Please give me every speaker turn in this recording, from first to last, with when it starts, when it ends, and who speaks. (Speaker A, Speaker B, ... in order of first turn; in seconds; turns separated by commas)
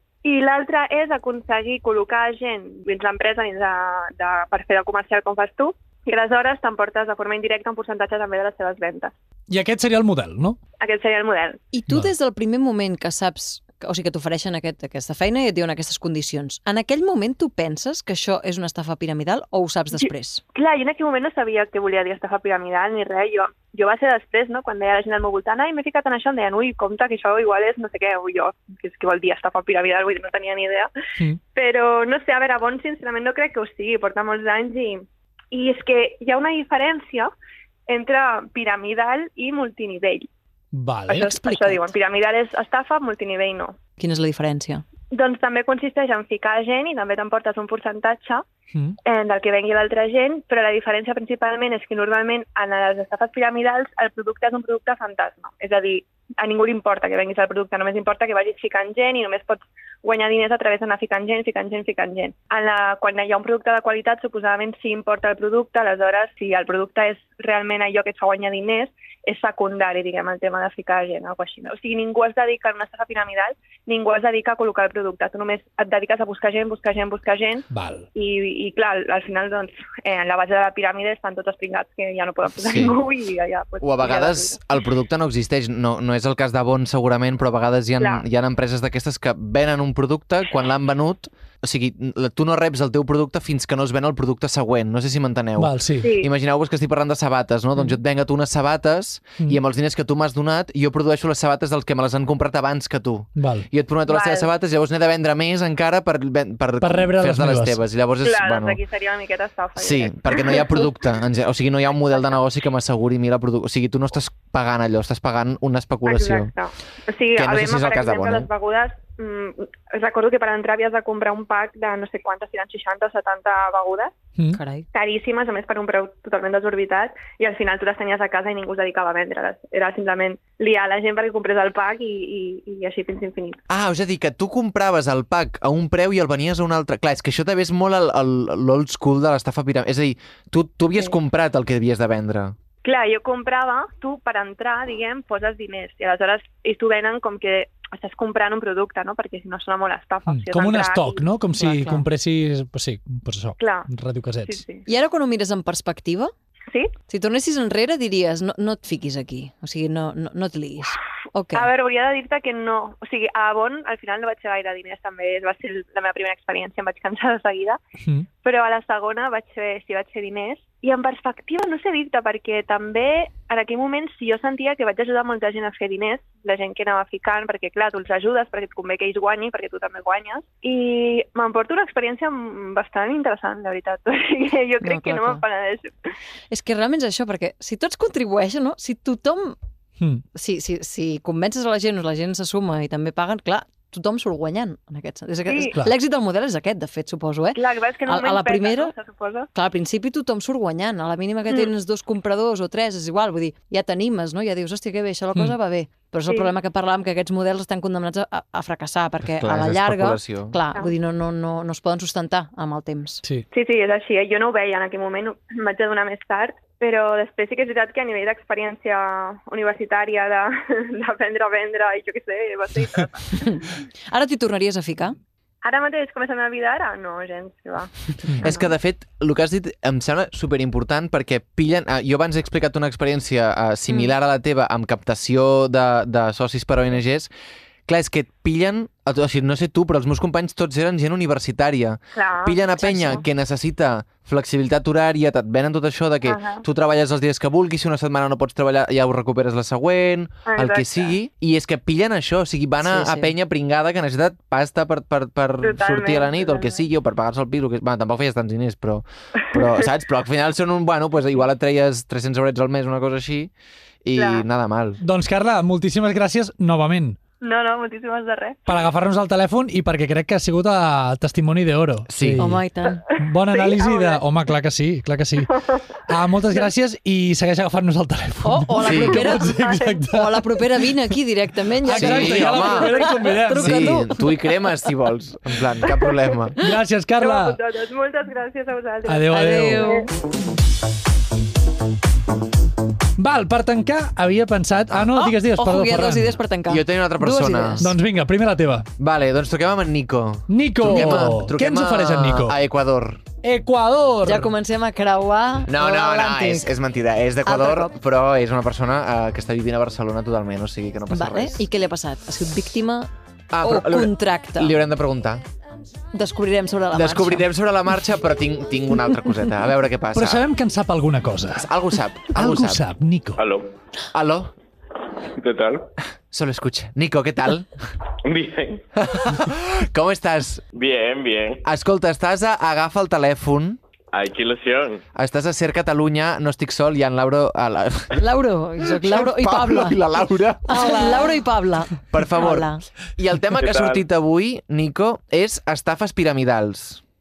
Speaker A: 0.2-9.1, Speaker B: 9.5-10.6, Speaker A: 10.8-11.6, Speaker C: 11.7-20.4, Speaker A: 19.9-30.9, Speaker A: 31.5-37.3, Speaker A: 37.9-40.3, Speaker B: 40.7-41.7, Speaker A: 41.1-43.8, Speaker C: 44.0-44.8, Speaker A: 45.1-48.5, Speaker A: 49.0-84.6, Speaker B: 77.7-78.1, Speaker D: 82.6-82.9, Speaker D: 83.8-108.8, Speaker A: 88.0-88.2, Speaker B: 95.6-96.1, Speaker A: 96.0-96.3, Speaker B: 103.4-103.7, Speaker A: 104.1-104.5, Speaker B: 106.8-107.8, Speaker A: 108.2-110.9, Speaker D: 109.8-116.5, Speaker A: 116.0-124.2, Speaker D: 117.3-118.5, Speaker C: 124.5-124.8, Speaker A: 124.9-133.6, Speaker D: 133.7-142.6, Speaker A: 142.8-151.2, Speaker B: 150.3-154.6, Speaker C: 151.6-152.0, Speaker A: 153.6-153.9, Speaker A: 154.5-154.8, Speaker C: 154.8-156.3, Speaker C: 157.1-161.7, Speaker A: 161.5-167.8, Speaker A: 168.4-185.9, Speaker C: 184.8-185.4, Speaker C: 186.5-189.6, Speaker C: 190.3-198.9, Speaker A: 195.5-195.7, Speaker A: 197.5-199.5, Speaker C: 199.5-213.2, Speaker D: 209.4-210.6, Speaker A: 213.5-223.4, Speaker C: 224.1-225.1, Speaker A: 225.6-228.7, Speaker D: 228.4-237.3, Speaker D: 237.9-263.5, Speaker A: 242.1-243.2, Speaker C: 242.8-243.2, Speaker A: 246.2-246.6, Speaker A: 250.4-251.1, Speaker C: 252.8-253.3, Speaker A: 255.6-256.8, Speaker D: 264.0-265.0, Speaker A: 264.1-264.4, Speaker B: 265.0-267.2, Speaker A: 267.4-268.6, Speaker B: 268.7-272.6, Speaker D: 272.1-272.4, Speaker C: 272.4-273.0, Speaker B: 273.2-275.5, Speaker A: 273.6-274.2, Speaker B: 276.1-280.8, Speaker C: 278.4-284.1, Speaker D: 278.8-279.1, Speaker A: 279.5-279.9, Speaker B: 281.8-283.9, Speaker D: 281.9-286.6, Speaker B: 286.6-287.6, Speaker A: 287.2-290.1, Speaker B: 289.1-289.8, Speaker C: 289.3-290.1, Speaker B: 293.2-296.4, Speaker C: 295.1-297.9, Speaker D: 296.7-297.8, Speaker B: 297.8-298.9, Speaker D: 299.0-303.2, Speaker B: 300.5-302.6, Speaker B: 303.4-304.5, Speaker C: 304.2-306.7, Speaker D: 305.6-311.6, Speaker C: 307.4-307.9, Speaker C: 311.1-313.1, Speaker D: 313.5-315.4, Speaker C: 313.6-314.8, Speaker C: 316.1-317.5, Speaker D: 316.9-320.4, Speaker B: 320.1-321.7, Speaker D: 321.6-322.8, Speaker B: 322.3-323.4, Speaker E: 323.4-323.7, Speaker D: 324.1-324.5, Speaker E: 325.3-325.9, Speaker D: 326.3-327.8, Speaker E: 328.2-328.8, Speaker D: 328.9-330.6, Speaker E: 330.7-331.6, Speaker D: 331.6-333.8, Speaker E: 334.1-335.0, Speaker D: 335.1-338.2, Speaker C: 338.2-340.0, Speaker D: 338.8-341.1, Speaker C: 340.7-342.8, Speaker D: 342.1-347.0, Speaker E: 343.6-344.0